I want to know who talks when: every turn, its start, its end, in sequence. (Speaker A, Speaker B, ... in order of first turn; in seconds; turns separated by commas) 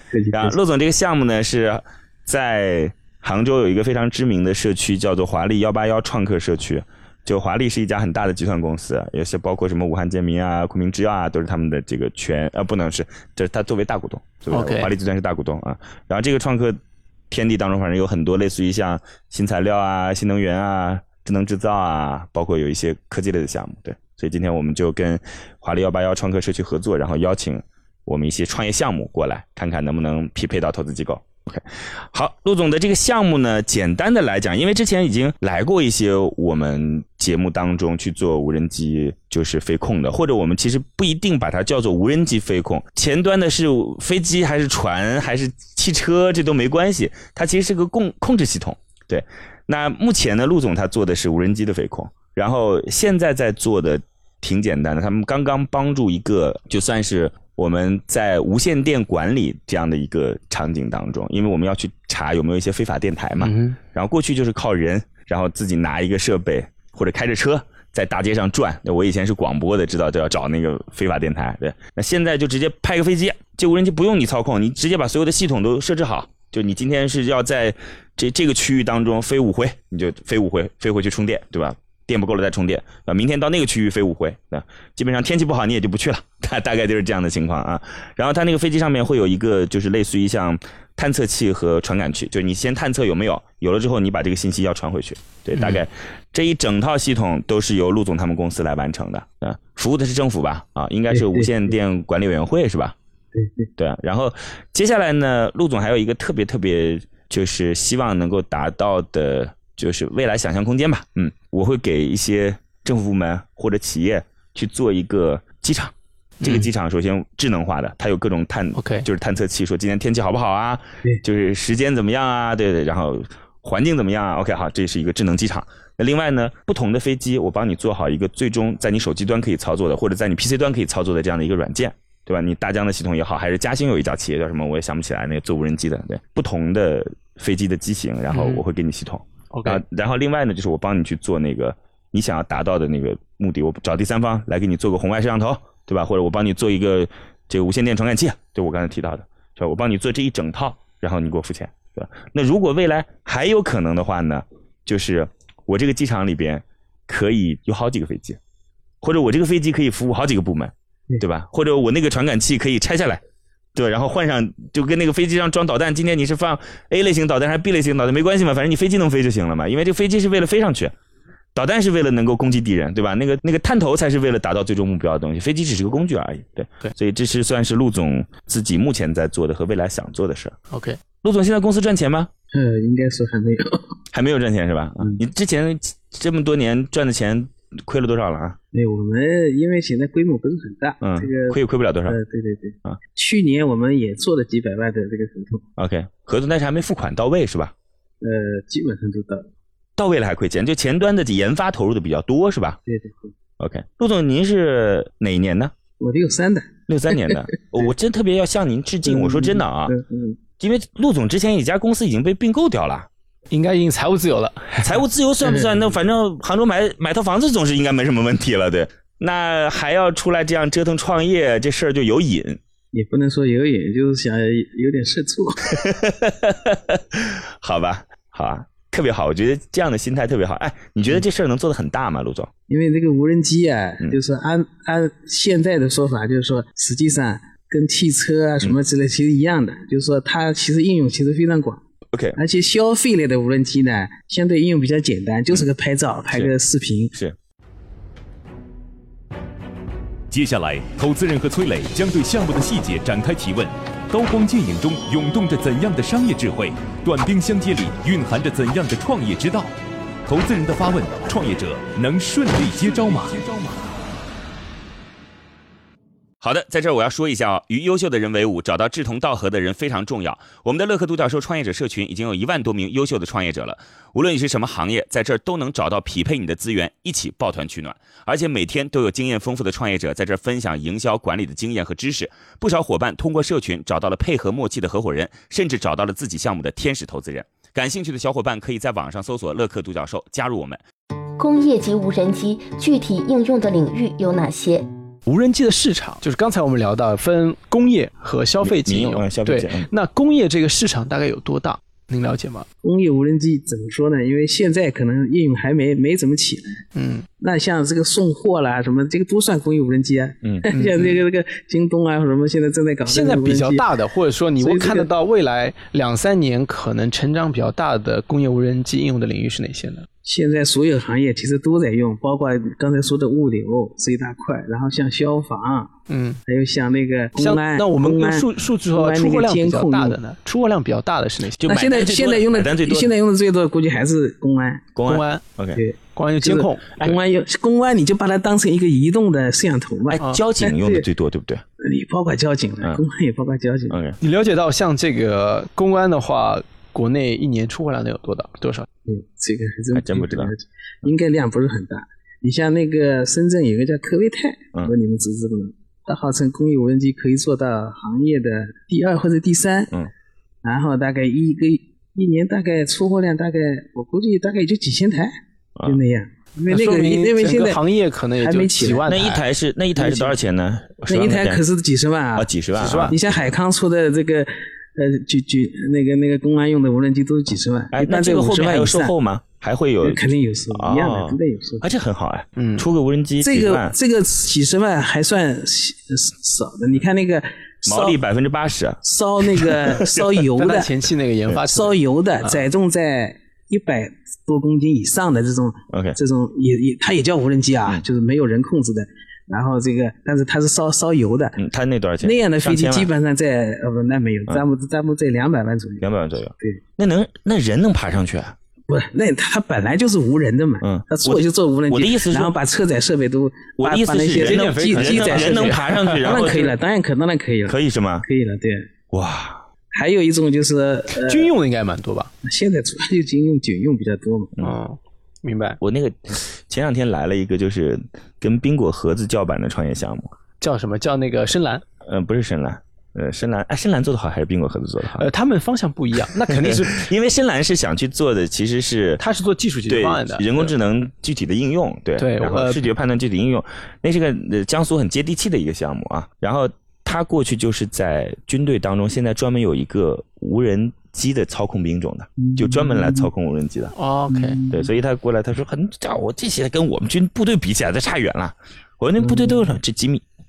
Speaker A: 0.1-0.5, Speaker B: 0.3-16.8, Speaker C: 14.5-14.9, Speaker B: 17.3-103.0, Speaker C: 63.4-63.8, Speaker C: 95.5-95.8, Speaker A: 101.1-101.7, Speaker A: 103.3-103.7, Speaker B: 103.8-158.4, Speaker C: 116.4-116.7, Speaker C: 118.8-119.1, Speaker C: 138.3-138.6, Speaker C: 139.5-139.8, Speaker B: 159.0-163.2, Speaker B: 163.7-170.9, Speaker B: 171.5-180.6, Speaker C: 180.7-181.0, Speaker B: 181.2-182.3, Speaker A: 182.5-183.8, Speaker B: 184.1-188.6, Speaker A: 188.7-195.6, Speaker B: 191.0-192.2, Speaker B: 195.8-197.7, Speaker A: 198.2-199.5, Speaker B: 200.0-202.8, Speaker A: 202.8-203.3, Speaker B: 203.6-205.7, Speaker A: 206.0-207.9, Speaker B: 206.9-209.9, Speaker A: 209.1-210.4, Speaker B: 210.6-213.1, Speaker C: 213.5-214.9, Speaker B: 214.8-222.6, Speaker A: 215.4-215.9, Speaker A: 222.9-225.8, Speaker B: 225.7-232.5, Speaker A: 232.7-241.8, Speaker B: 242.1-242.4, Speaker A: 242.3-247.1, Speaker D: 250.3-259.7, Speaker D: 260.2-263.5, Speaker B: 266.4-290.8, Speaker E: 291.4-294.8, Speaker C: 295.2-302.6, Speaker B: 298.6-299.9, Speaker A: 302.8-306.8, Speaker C: 306.9-307.3, Speaker A: 307.4-313.9, Speaker C: 310.7-311.2, Speaker C: 313.1-320.1, Speaker A: 314.6-315.1, Speaker A: 320.2-325.9, Speaker C: 326.1-326.4, Speaker A: 326.4-330.2, Speaker C: 327.4-331.7, Speaker B: 331.6-333.1, Speaker A: 331.6-334.9, Speaker B: 334.9-335.8, Speaker C: 335.1-335.4, Speaker A: 335.7-341.0, Speaker C: 336.1-337.1, Speaker B: 340.1-341.6, Speaker A: 341.8-344.0, Speaker B: 343.9-344.2, Speaker C: 344.2-348.9, Speaker A: 349.1-359.9, Speaker B: 349.9-350.5, Speaker A: 360.6-365.3, Speaker A: 365.8-367.8, Speaker C: 366.6-369.4, Speaker A: 368.4-369.1, Speaker B: 369.1-371.6, Speaker A: 369.9-370.4, Speaker A: 371.1-379.1, Speaker B: 372.3-373.5, Speaker C: 372.8-373.1, Speaker B: 377.9-383.9, Speaker A: 380.0-381.9, Speaker C: 382.6-382.9, Speaker A: 383.4-388.2, Speaker B: 387.8-390.4, Speaker A: 389.0-390.9, Speaker C: 390.6-392.6, Speaker A: 391.6-401.6, Speaker B: 395.9-396.2, Speaker B: 401.6-403.1, Speaker A: 402.2-406.1, Speaker B: 406.0-408.6, Speaker A: 408.9-418.9, Speaker B: 410.8-412.6, Speaker B: 413.8-416.7, Speaker C: 414.3-416.3, Speaker B: 417.6-418.2, Speaker B: 419.1-419.6, Speaker A: 419.9-421.5, Speaker C: 421.2-422.3, Speaker A: 422.4-424.6, Speaker C: 424.6-425.8, Speaker B: 425.8-430.3, Speaker C: 430.6-431.8, Speaker B: 432.0-435.2, Speaker C: 435.2-437.1, Speaker B: 436.4-439.2, Speaker C: 439.2-440.7, Speaker B: 439.9-453.9, Speaker C: 442.2-442.9, Speaker A: 452.4-453.3, Speaker C: 453.9-454.6, Speaker A: 454.3-454.9, Speaker B: 454.7-460.2, Speaker A: 459.2-459.6